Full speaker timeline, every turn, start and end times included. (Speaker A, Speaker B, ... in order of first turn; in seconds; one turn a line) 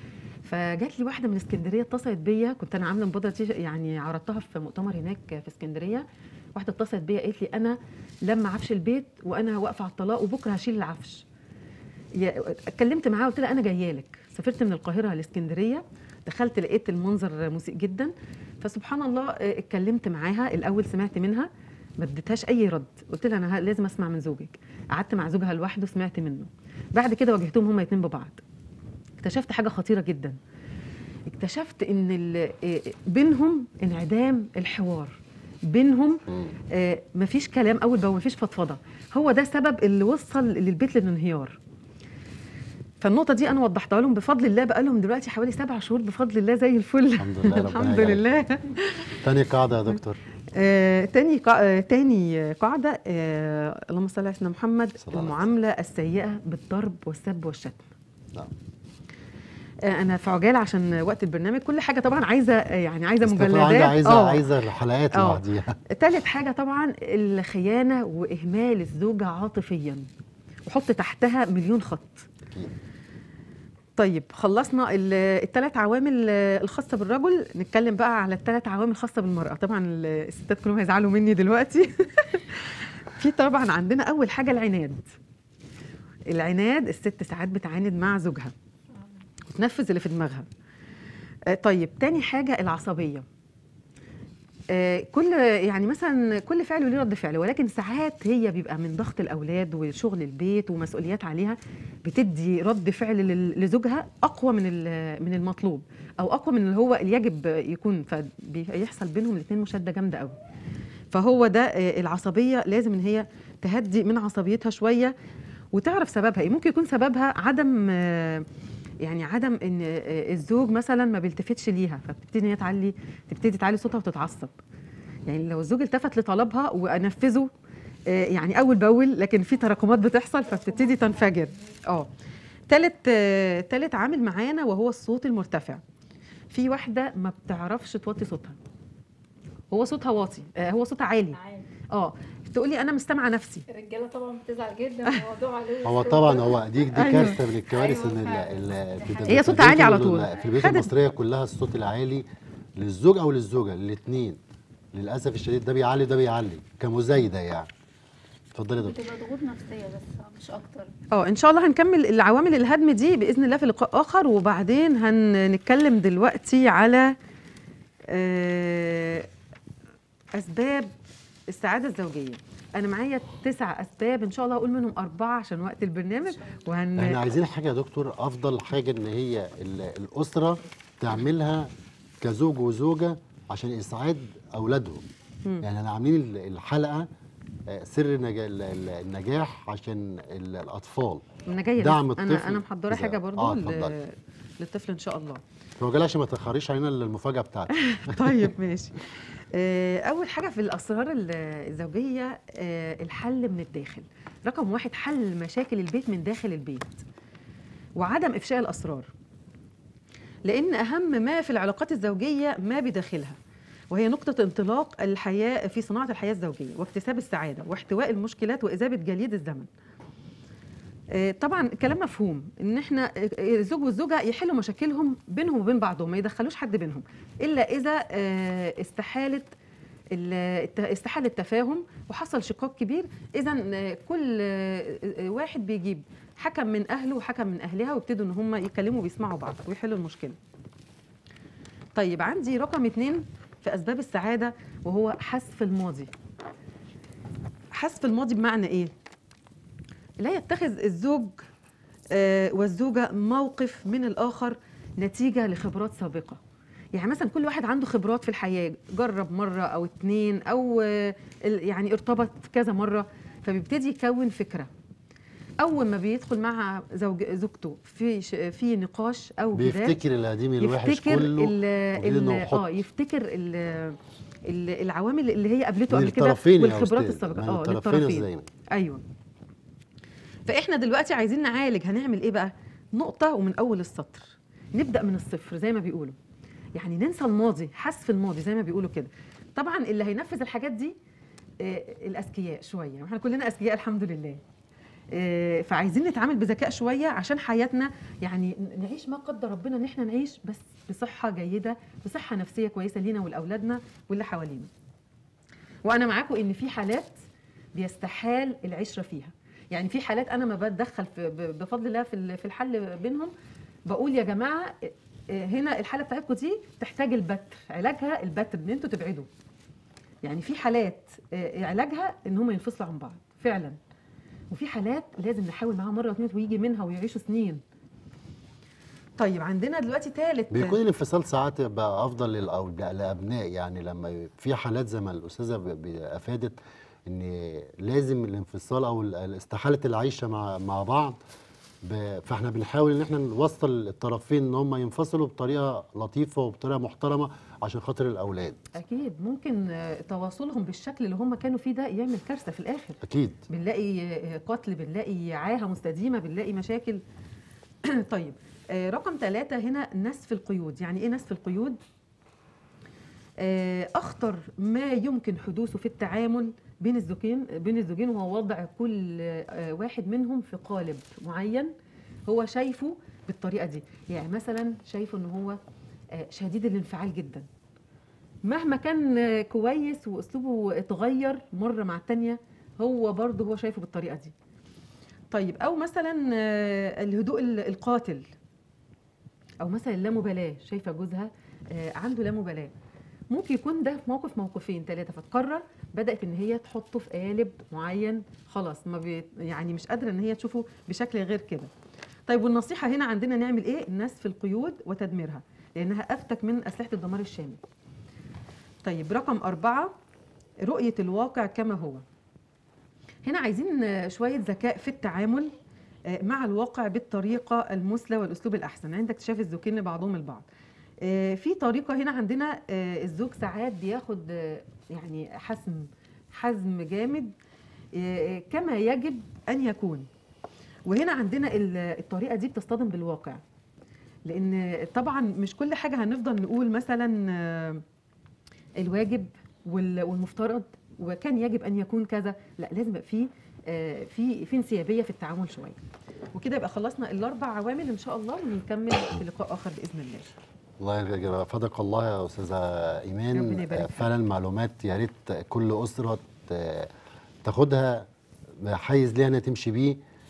Speaker A: 0.5-11.2
Speaker A: 12.2-28.4
Speaker A: 29.2-30.4
Speaker A: 31.3-41.6
Speaker A: 43.0-49.2
Speaker B: 47.2-48.2
Speaker B: 49.2-50.2
Speaker A: 50.5-57.9
Speaker B: 55.0-55.4
Speaker A: 59.8-64.5
Speaker B: 63.2-65.8
Speaker A: 65.1-70.1
Speaker A: 70.7-72.3
Speaker A: 74.0-85.0
Speaker A: 86.3-88.5
Speaker A: 89.5-90.5
Speaker A: 91.5-93.3
Speaker A: 94.7-110.4
Speaker A: 111.1-115.2
Speaker A: 115.7-118.5
Speaker A: 119.0-124.5
Speaker A: 125.3-127.5
Speaker A: 128.1-132.1
Speaker A: 132.7-135.8
Speaker A: 136.5-138.6
Speaker A: 139.7-141.4
Speaker C: 141.3-141.7
Speaker A: 141.9-143.7
Speaker C: 143.7-149.8
Speaker B: 145.8-152.3
Speaker A: 147.0-147.4
Speaker A: 149.3-150.9
Speaker B: 152.8-154.4
Speaker B: 154.9-157.7
Speaker B: 158.5-159.0
Speaker C: 158.8-160.9
Speaker A: 161.1-167.2
Speaker A: 168.1-169.3
Speaker A: 170.3-170.9
Speaker A: 171.5-177.2
Speaker B: 177.0-185.1
Speaker B: 185.6-187.1
Speaker B: 187.7-191.3
Speaker A: 191.5-195.4
Speaker B: 191.8-194.0
Speaker B: 195.8-198.5
Speaker A: 197.9-207.1
Speaker A: 208.0-209.1
Speaker A: 210.4-213.4
Speaker A: 213.9-219.7
Speaker A: 221.1-229.5
Speaker A: 230.1-240.4
Speaker A: 241.9-246.1
Speaker A: 247.7-248.9
Speaker A: 250.2-251.5
Speaker A: 252.1-256.4
Speaker A: 256.9-264.7
Speaker A: 265.6-270.0
Speaker B: 269.5-272.7
Speaker A: 270.6-279.0
Speaker B: 275.9-278.5
Speaker A: 280.5-286.2
Speaker A: 286.8-291.0
Speaker A: 291.6-294.4
Speaker A: 295.1-304.7
Speaker A: 305.9-307.2
Speaker A: 307.8-313.3
Speaker A: 313.9-319.3
Speaker A: 320.2-323.8
Speaker A: 324.5-327.6
Speaker A: 329.2-330.8
Speaker B: 330.5-341.2
Speaker B: 341.8-348.6
Speaker A: 348.8-357.0
Speaker B: 353.0-353.4
Speaker A: 357.9-361.8
Speaker A: 363.4-371.7
Speaker A: 372.3-375.6
Speaker A: 376.1-377.5
Speaker A: 378.4-384.3
Speaker A: 385.3-388.3
Speaker A: 389.6-392.7
Speaker A: 393.3-401.7
Speaker A: 402.3-407.6
Speaker A: 408.8-409.9
Speaker A: 410.6-412.1
Speaker A: 413.2-415.6
Speaker A: 416.1-420.5
Speaker A: 421.0-427.3
Speaker A: 428.0-430.1
Speaker A: 430.9-433.4
Speaker A: 434.3-437.8
Speaker A: 438.8-445.8
Speaker A: 446.3-450.3
Speaker B: 450.8-456.9
Speaker A: 453.3-454.1
Speaker B: 457.4-458.1
Speaker B: 458.6-460.0